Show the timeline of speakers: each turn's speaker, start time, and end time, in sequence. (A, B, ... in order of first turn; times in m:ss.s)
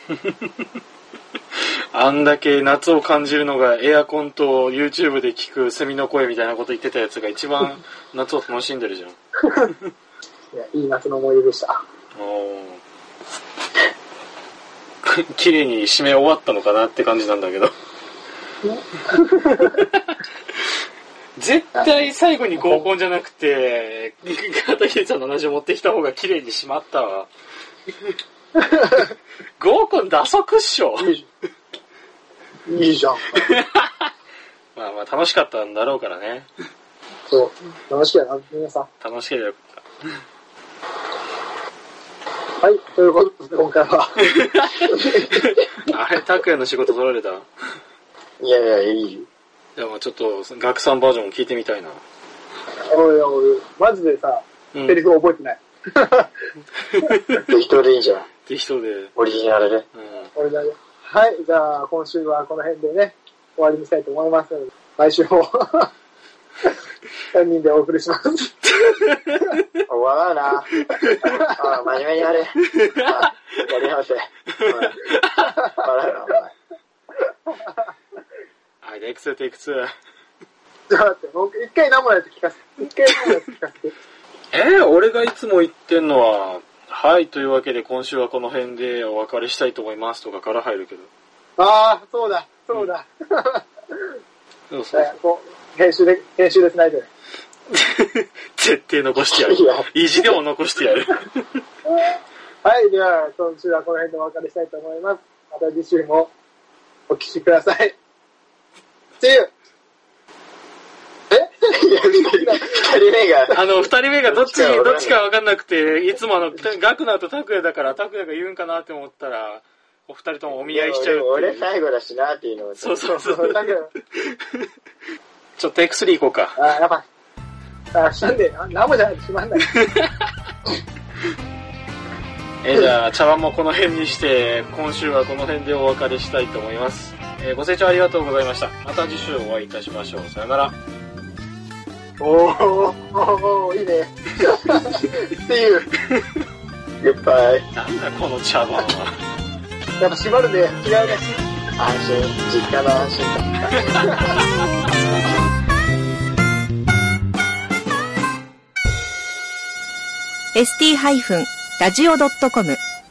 0:00.2-0:00.7 A
0:01.9-0:09.2 A
0:09.5-0:09.7 B
0:10.5-0:11.8 B
0:12.2-0:12.8 A
0:15.0-0:17.7 A
0:18.6-0:19.8 B
0:19.6-0:20.1 A
0:21.4-0:27.3 A
0:22.6-0:22.8 B
0:28.6-0:29.1 B
0:29.6-0:31.1 A
0:31.0-0:31.3 B
0:32.7-0:33.5 B
0:33.4-0:34.1 A
0:34.8-0:36.5 A
0:37.3-0:38.9 B
0:39.0-0:39.8 A
0:42.6-0:44.2 B
0:44.4-0:47.5 A
0:44.9-0:45.6 B
0:48.4-0:49.3 C
0:49.8-0:52.0 A
0:52.9-0:56.3 B
0:56.9-0:57.4 A
0:57.4-0:58.3 C
0:58.5-0:59.1 A
0:59.2-0:59.9 C
1:00.0-1:00.3 A
1:00.4-1:05.9 B
1:07.3-1:08.6 B
1:08.8-1:09.6 A
1:09.9-1:15.0 C
1:10.9-1:11.2 A
1:11.1-1:11.5 B
1:12.7-1:13.3 A
1:14.6-1:15.6 A
1:15.6-1:16.5 C
1:17.5-1:17.9 B
1:18.8-1:19.9 A
1:20.9-1:24.0 B
1:24.5-1:31.1 A
1:31.6-1:34.2 B
1:34.7-1:35.1 A
1:34.9-1:37.1 B
1:37.7-1:41.6 A
1:39.3-1:39.9 C
1:41.9-1:46.3 B
1:47.1-1:48.0 B
1:49.2-1:49.5 B
1:51.3-1:52.9 B
1:51.7-1:53.6 C
1:53.5-2:01.7 A
1:54.3-1:55.2 C
2:00.6-2:03.0 C
2:02.8-2:04.7 A
2:03.1-2:03.9 B
2:05.6-2:06.6 A
2:06.6-2:07.0 B
2:07.9-2:09.7 B
2:12.6-2:20.8 A
2:22.2-2:25.9 B
2:27.0-2:27.7 C
2:27.7-2:29.2 A
2:30.0-2:31.4 B
2:31.8-2:33.8 C
2:33.9-2:34.4 A
2:40.5-2:42.8 D